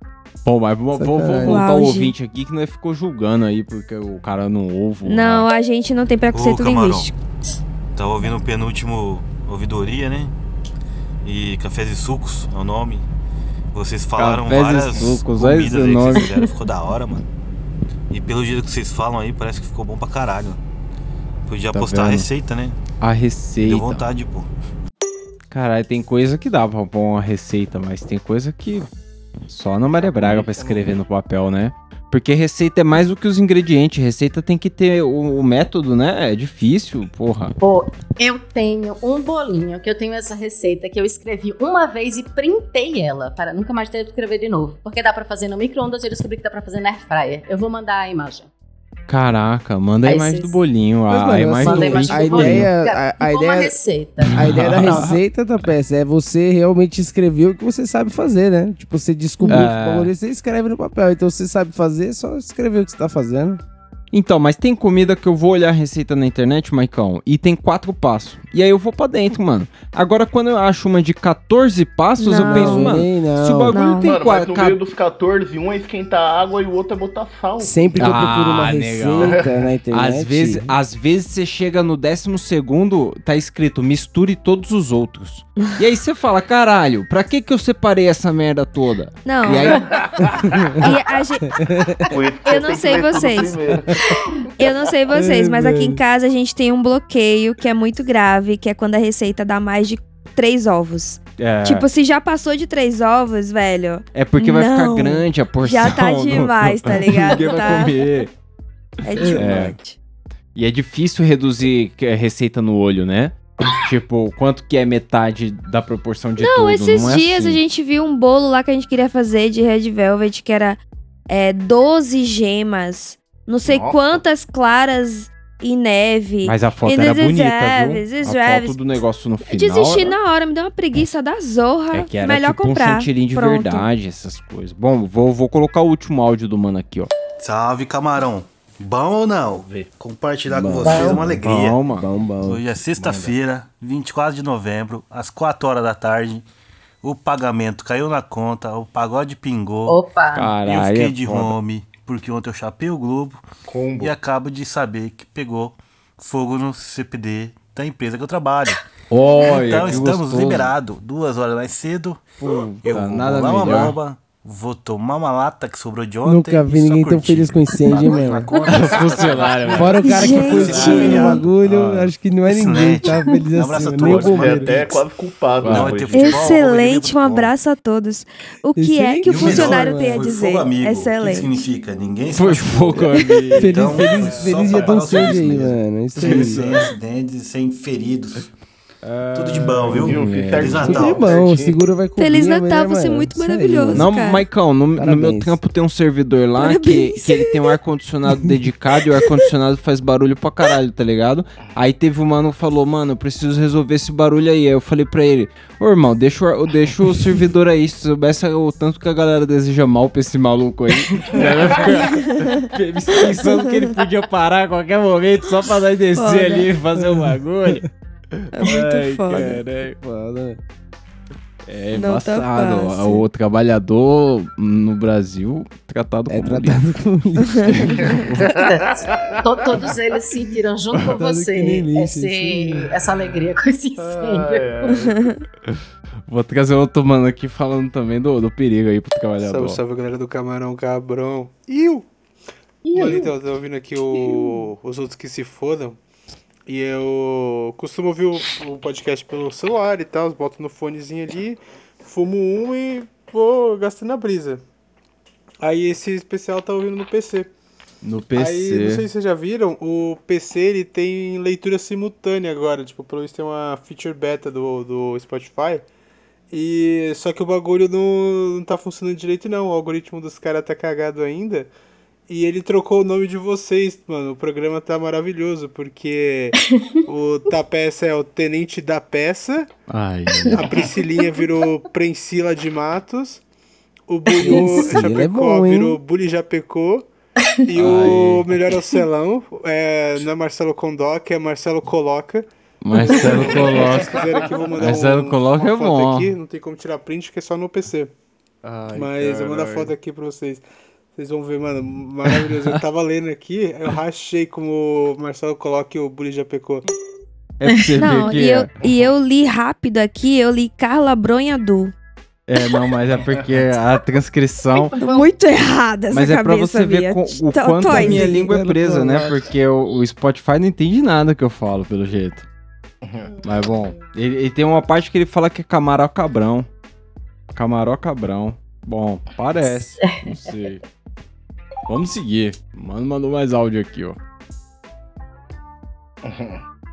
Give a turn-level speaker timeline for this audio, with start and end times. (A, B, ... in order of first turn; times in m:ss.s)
0:00.4-0:05.5 A
0:00.9-0:01.6 B
0:01.4-0:02.1 C
0:05.0-0:07.1 C
0:06.3-0:07.1 D
0:07.9-0:10.3 D
0:11.2-0:13.0 D
0:13.7-0:17.2 D
0:14.2-0:16.3 A
0:16.2-0:16.5 E
0:18.1-0:20.6 D
0:21.5-0:22.8 D
0:21.7-0:22.3 A
0:23.0-0:24.0 A
0:23.6-0:24.5 D
0:25.5-0:28.9 A
0:29.5-0:37.5 A
0:30.0-0:30.9 F
0:37.6-0:48.5 E
0:49.1-0:52.7 A
0:50.0-0:50.6 E
0:51.1-0:53.7 B
0:51.6-0:54.9 E
0:54.2-0:55.2 A
0:54.3-1:03.6 B
0:59.5-1:00.1 A
1:04.1-1:14.8 A
1:12.2-1:13.0 C
1:12.5-1:13.8 B
1:13.7-1:14.2 C
1:14.0-1:17.8 F
1:17.6-1:20.7 B
1:18.0-1:19.4 A
1:19.9-1:29.8 A
1:29.2-1:29.8 C
1:30.0-1:30.4 F
1:30.4-1:30.8 B
1:30.8-1:31.5 C
1:31.6-1:32.0 B
1:32.1-1:34.0 F
1:32.4-1:33.6 C
1:34.6-1:48.0 C
1:35.1-1:36.0 B
1:41.4-1:41.9 A
1:44.1-1:48.3 A
1:49.0-1:50.0 C
1:49.2-1:49.8 A
1:50.5-1:57.6 A
1:56.4-2:08.8 C
2:03.6-2:04.2 F
2:06.4-2:10.2 A
2:09.5-2:13.9 C
2:11.9-2:17.1 A
2:17.4-2:21.8 D
2:19.6-2:19.9 F
2:20.5-2:21.4 B
2:20.8-2:21.2 E
2:21.4-2:22.1 A
2:21.9-2:22.6 B
2:22.4-2:26.4 D
2:27.0-2:30.0 D
2:29.9-2:30.5 E
2:30.3-2:31.6 A
2:30.6-2:33.4 D
2:33.7-2:34.1 F
2:34.0-2:38.8 D
2:39.1-2:40.7 A
2:39.3-2:42.2 D
2:42.4-2:44.0 A
2:42.8-2:51.4 D
2:46.2-2:48.5 B
2:48.6-2:52.1 A
2:49.7-2:54.9 B
2:50.0-2:51.4 C
2:52.5-2:55.0 D
2:53.1-2:53.4 E
2:53.9-2:56.4 F
2:55.6-2:56.0 A
2:55.6-2:57.5 D
2:56.1-3:01.6 C
2:58.8-3:00.3 B
2:59.2-3:08.5 D
3:02.3-3:05.5 A
3:03.6-3:06.7 B
3:06.2-3:06.8 A
3:09.0-3:11.0 A
3:09.3-3:11.4 D
3:09.9-3:11.8 F
3:10.6-3:14.1 B
3:12.2-3:14.4 C
3:13.9-3:37.8 A
3:15.0-3:15.6 B
3:16.6-3:17.8 C
3:19.1-3:19.5 C
3:32.0-3:32.7 C
3:36.2-3:36.7 C
3:38.4-3:40.0 A
3:38.6-3:39.6 C
3:39.3-3:40.6 B
3:41.7-3:46.9 A
3:41.9-3:43.2 C
3:46.3-3:48.0 B
3:47.5-3:48.0 C
3:47.7-3:48.6 A
3:48.5-3:54.9 E
3:48.6-3:49.9 F
3:51.1-3:52.9 B
3:54.0-3:55.2 F
3:54.9-3:55.4 C
3:56.3-3:59.8 A
3:59.4-4:02.0 G
4:02.8-4:03.3 E
4:02.9-4:06.0 G
4:06.7-4:14.6 G
4:15.6-4:17.5 G
4:18.0-4:19.0 A
4:18.3-4:25.8 G
4:26.5-4:31.7 G
4:32.3-4:39.7 G
4:39.9-4:40.6 A
4:40.5-4:40.9 E
4:40.6-4:43.4 G
4:44.1-4:47.1 G
4:44.4-4:44.8 E
4:44.4-4:46.0 B
4:47.7-4:58.1 G
4:47.8-4:48.5 A
4:52.8-4:54.2 A
4:53.9-4:54.4 F
4:54.8-4:56.3 A
4:58.6-4:59.9 A
4:58.9-5:00.6 G
5:01.2-5:06.8 G
5:02.3-5:02.7 A
5:07.6-5:08.7 A
5:08.0-5:11.9 C
5:12.5-5:15.0 A
5:14.7-5:15.3 E
5:15.0-5:18.4 C
5:16.1-5:22.4 A
5:17.9-5:19.4 B
5:23.0-5:23.3 F
5:23.4-5:26.7 A
5:27.5-5:30.8 A
5:30.0-5:30.5 E
5:31.9-5:34.2 A
5:36.2-5:36.6 F